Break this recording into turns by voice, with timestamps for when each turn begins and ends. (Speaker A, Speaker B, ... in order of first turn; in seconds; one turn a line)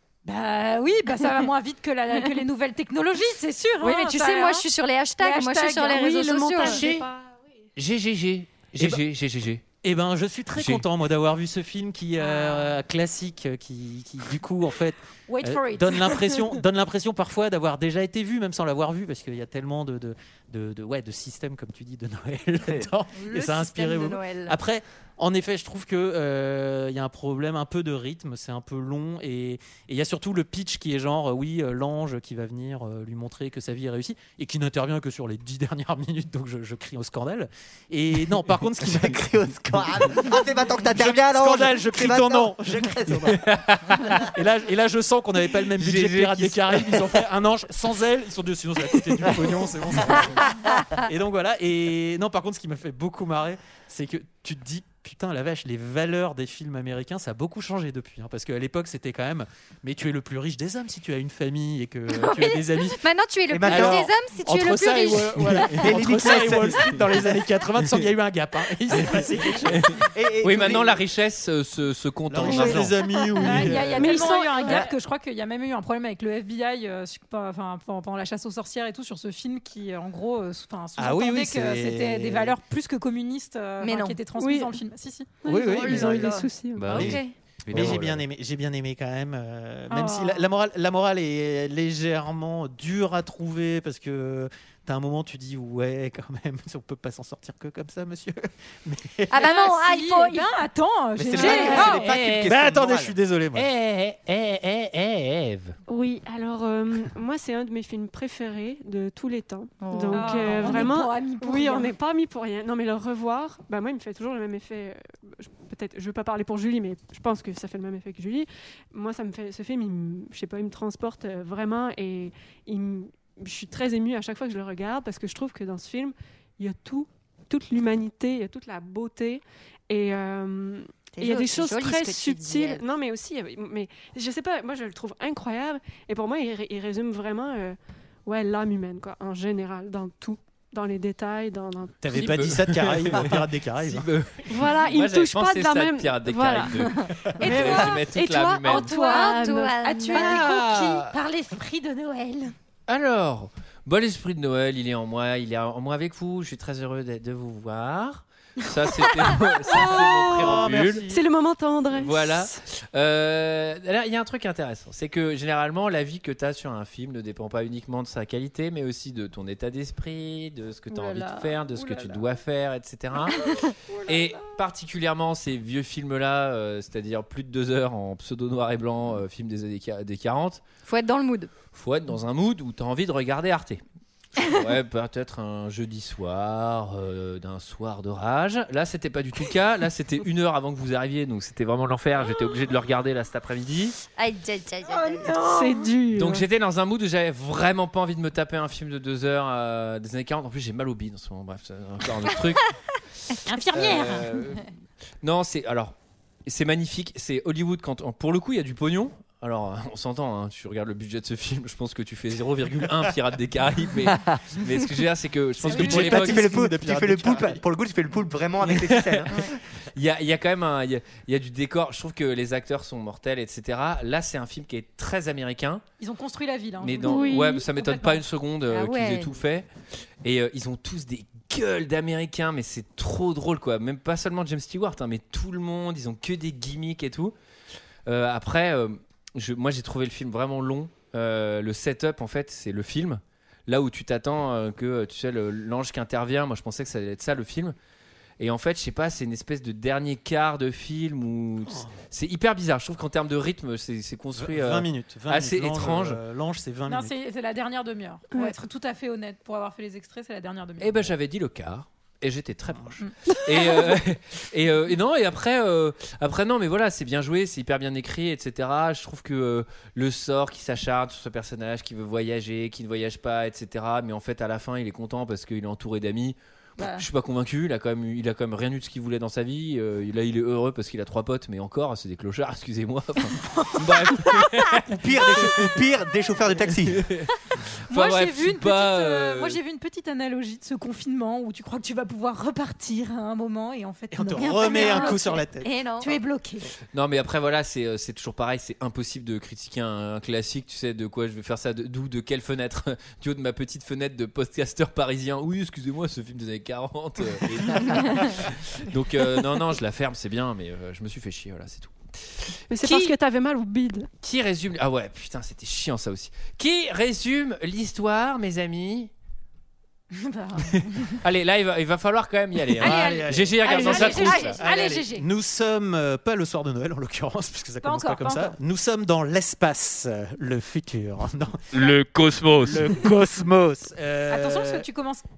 Speaker A: 0.2-4.7
Speaker B: 3.8-6.8
Speaker A: 5.2-6.1
Speaker C: 5.9-7.4
Speaker D: 6.6-7.1
Speaker D: 7.8-9.6
Speaker E: 9.8-39.2
Speaker D: 10.5-10.8
Speaker A: 12.2-12.7
Speaker A: 15.3-16.6
Speaker B: 23.1-24.6
Speaker F: 38.8-43.3
Speaker E: 40.9-43.4
Speaker D: 43.3-44.3
Speaker E: 44.2-63.0
Speaker D: 45.8-46.9
Speaker B: 62.1-66.2
Speaker F: 63.5-64.1
Speaker E: 63.6-70.0
Speaker F: 65.7-67.0
Speaker F: 70.1-71.0
Speaker D: 70.4-72.9
Speaker E: 72.3-74.9
Speaker C: 72.5-72.8
Speaker A: 73.4-86.3
Speaker C: 73.9-74.9
Speaker E: 81.0-82.5
Speaker B: 83.8-84.2
Speaker C: 84.4-84.7
Speaker C: 85.4-87.0
Speaker E: 85.4-99.5
Speaker B: 85.7-87.3
Speaker F: 86.8-87.1
Speaker F: 87.7-88.2
Speaker A: 89.9-90.5
Speaker B: 99.3-100.5
Speaker A: 99.3-102.1
Speaker F: 101.2-103.2
Speaker C: 101.3-102.0
Speaker D: 101.9-102.5
Speaker E: 102.5-103.7
Speaker D: 103.5-105.8
Speaker C: 105.9-142.0
Speaker B: 109.8-110.9
Speaker A: 110.1-111.9
Speaker B: 131.2-132.8
Speaker E: 142.0-144.1
Speaker D: 142.1-148.9
Speaker C: 144.5-149.8
Speaker A: 147.5-147.9
Speaker A: 148.7-152.5
Speaker B: 148.8-150.3
Speaker D: 150.1-151.1
Speaker D: 152.9-161.0
Speaker C: 159.9-162.5
Speaker E: 160.3-161.2
Speaker D: 162.0-173.5
Speaker A: 170.9-172.2
Speaker D: 174.1-180.6
Speaker B: 180.8-181.5
Speaker D: 181.7-183.8
Speaker D: 184.3-194.0
Speaker B: 194.2-195.3
Speaker A: 194.8-195.9
Speaker C: 195.4-196.4
Speaker D: 196.1-202.7
Speaker A: 203.4-204.4
Speaker D: 203.7-204.7
Speaker D: 205.2-205.9
Speaker D: 206.4-216.5
Speaker E: 215.6-217.6
Speaker F: 215.7-219.5
Speaker E: 218.6-219.3
Speaker D: 219.9-225.8
Speaker A: 226.0-228.2
Speaker D: 226.8-229.7
Speaker C: 227.1-227.6
Speaker B: 228.7-229.3
Speaker D: 230.2-237.3
Speaker D: 238.1-247.7
Speaker D: 248.4-256.2
Speaker E: 254.3-257.1
Speaker A: 256.9-261.1
Speaker D: 260.8-285.4
Speaker A: 276.8-277.0
Speaker A: 283.5-284.2
Speaker F: 284.9-287.0
Speaker D: 286.9-289.6
Speaker A: 287.9-295.4
Speaker E: 294.1-295.7
Speaker B: 294.4-296.2
Speaker A: 296.0-296.7
Speaker D: 296.9-313.1
Speaker C: 312.7-314.1
Speaker D: 314.2-319.1
Speaker A: 320.1-321.2
Speaker D: 321.1-324.6
Speaker E: 322.8-331.9
Speaker A: 322.8-325.3
Speaker B: 323.8-324.6
Speaker A: 327.8-328.5
Speaker D: 331.7-333.1
Speaker E: 332.6-334.9
Speaker A: 334.3-335.2